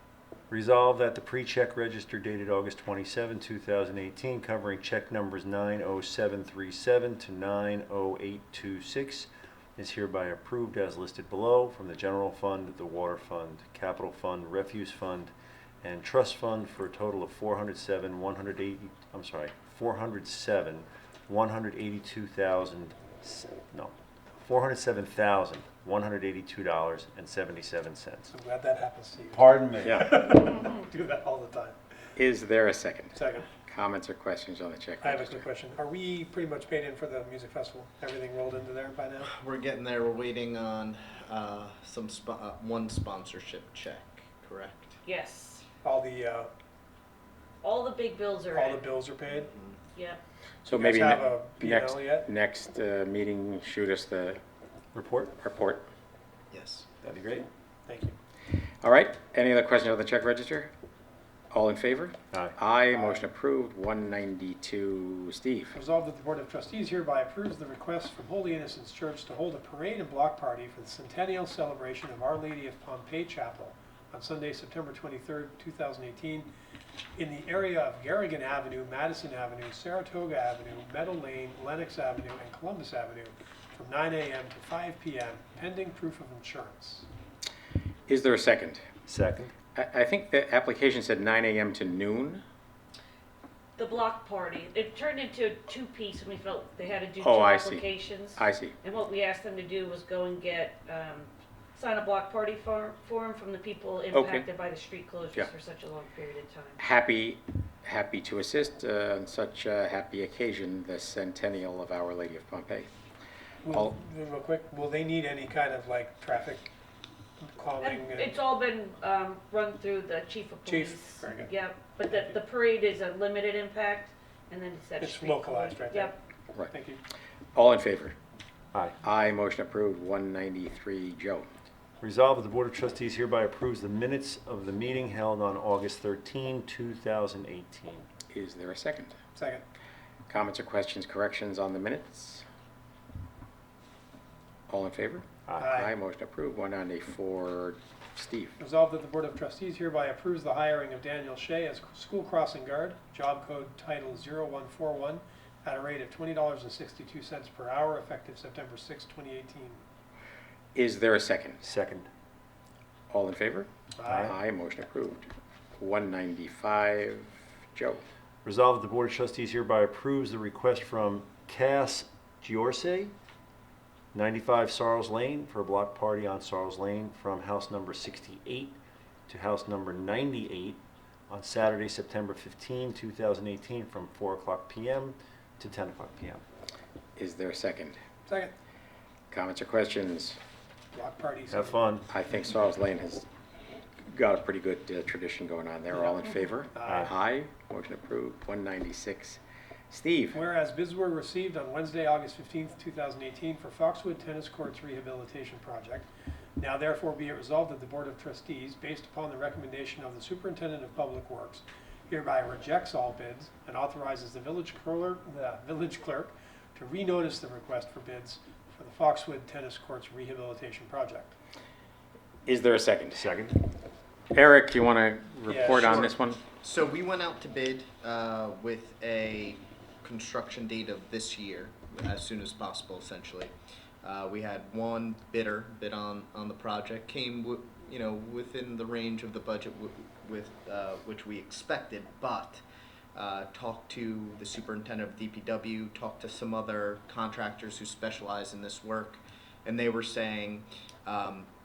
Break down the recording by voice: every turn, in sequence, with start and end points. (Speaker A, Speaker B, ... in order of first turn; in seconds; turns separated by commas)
Speaker A: 0.5-15.3, Speaker A: 15.8-28.3, Speaker B: 28.3-31.8, Speaker A: 29.3-30.1, Speaker C: 32.2-35.4, Speaker B: 33.1-33.5, Speaker B: 35.0-39.3, Speaker D: 39.2-45.0, Speaker E: 45.0-45.6, Speaker B: 45.8-46.5, Speaker E: 47.6-48.8, Speaker B: 48.5-49.5, Speaker D: 49.3-49.8, Speaker E: 49.9-50.2, Speaker C: 50.6-54.4, Speaker B: 50.7-52.3, Speaker A: 54.9-55.3, Speaker C: 55.4-55.9, Speaker D: 56.5-56.9, Speaker A: 57.0-57.5, Speaker B: 57.9-58.1, Speaker C: 58.8-60.7, Speaker C: 61.5-65.8, Speaker B: 62.9-63.3, Speaker B: 65.7-76.5, Speaker B: 77.2-87.1, Speaker C: 88.1-88.8, Speaker A: 89.1-89.5, Speaker C: 89.7-92.4, Speaker E: 93.8-106.8, Speaker C: 97.2-98.8, Speaker C: 104.1-104.5, Speaker C: 106.8-113.0, Speaker B: 113.6-116.7, Speaker B: 117.4-118.3, Speaker E: 117.8-126.2, Speaker B: 120.6-121.5, Speaker B: 122.1-122.4, Speaker B: 125.0-127.0, Speaker C: 127.5-128.2, Speaker C: 129.0-131.5, Speaker A: 132.0-138.1, Speaker C: 138.3-139.2, Speaker B: 139.3-139.6, Speaker C: 140.3-142.4, Speaker C: 144.7-148.6, Speaker A: 145.5-145.7, Speaker B: 145.6-145.9, Speaker B: 148.6-159.8, Speaker C: 160.8-161.6, Speaker A: 161.6-162.1, Speaker C: 163.1-168.0, Speaker B: 164.0-164.3, Speaker A: 168.4-173.1, Speaker A: 174.1-186.4, Speaker C: 187.2-188.0, Speaker B: 188.3-188.5, Speaker C: 189.3-190.4, Speaker B: 190.9-191.8, Speaker A: 191.5-192.1, Speaker C: 192.1-193.3, Speaker C: 194.0-200.4, Speaker B: 196.7-197.1, Speaker B: 200.3-221.3, Speaker C: 222.5-223.3, Speaker A: 223.1-223.6, Speaker C: 224.3-226.4, Speaker B: 225.5-226.1, Speaker D: 225.8-242.6, Speaker D: 243.2-251.5